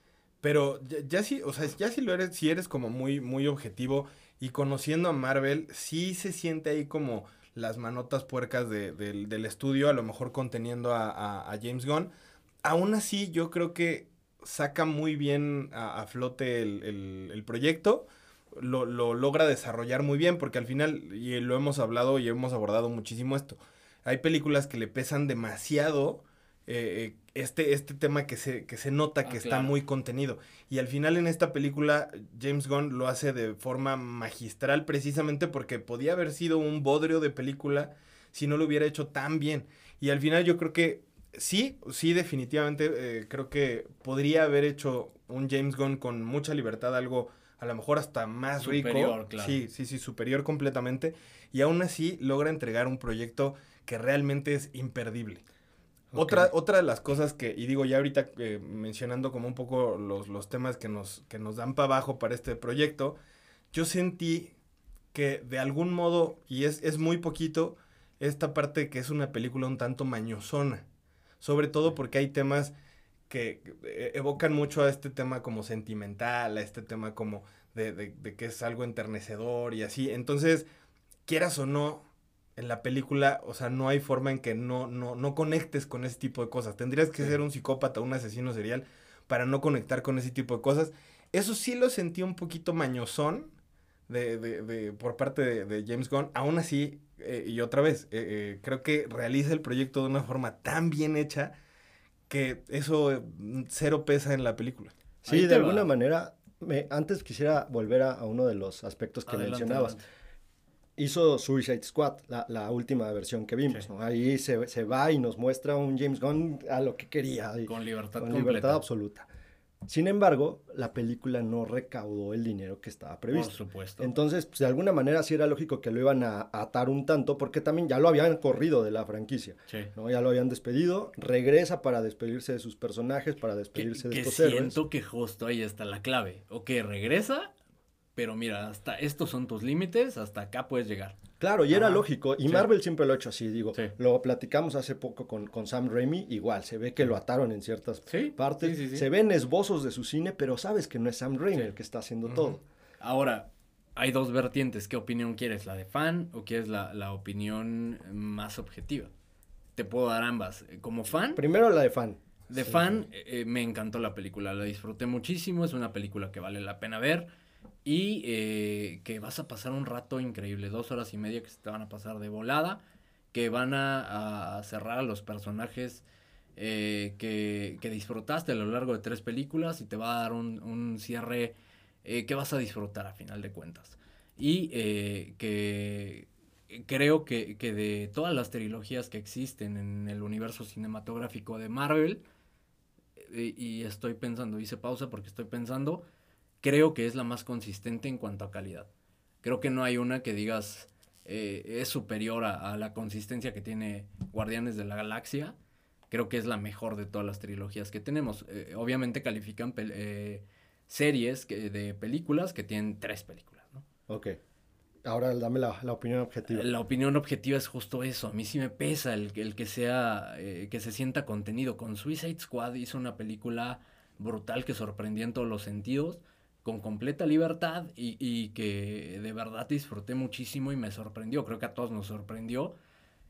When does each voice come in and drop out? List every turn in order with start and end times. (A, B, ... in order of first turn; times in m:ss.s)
0:00.4-0:12.1 A
0:12.6-0:55.4 A
0:29.2-0:29.7 B
0:48.6-0:49.6 B
0:56.1-0:56.5 C
0:56.2-1:03.2 A
1:03.7-1:04.5 A
1:05.1-1:10.8 A
1:11.4-1:12.7 A
1:13.3-1:20.7 A
1:21.2-1:22.0 A
1:22.6-1:33.5 A
1:34.1-1:41.5 A
1:42.3-1:44.9 A
1:45.2-1:45.9 B
1:45.2-1:50.0 C
1:49.2-1:50.0 B
1:51.0-1:59.3 C
1:57.6-1:58.8 B
1:59.8-2:14.8 C
2:03.3-2:04.1 B
2:13.7-2:17.5 B
2:18.2-2:21.2 B
2:21.4-2:32.6 C
2:21.7-2:22.7 B
2:28.1-2:29.1 B
2:32.3-2:39.1 B
2:39.8-2:41.4 B
2:41.3-2:43.0 C
2:42.5-2:47.3 B
2:47.8-2:52.8 B
2:53.3-2:56.0 B
2:56.6-3:12.2 B
3:13.2-3:16.0 B
3:16.6-3:18.9 B
3:19.4-3:25.5 B
3:26.1-3:33.8 B
3:34.1-3:34.4 C
3:35.0-3:36.7 C
3:36.5-3:52.7 B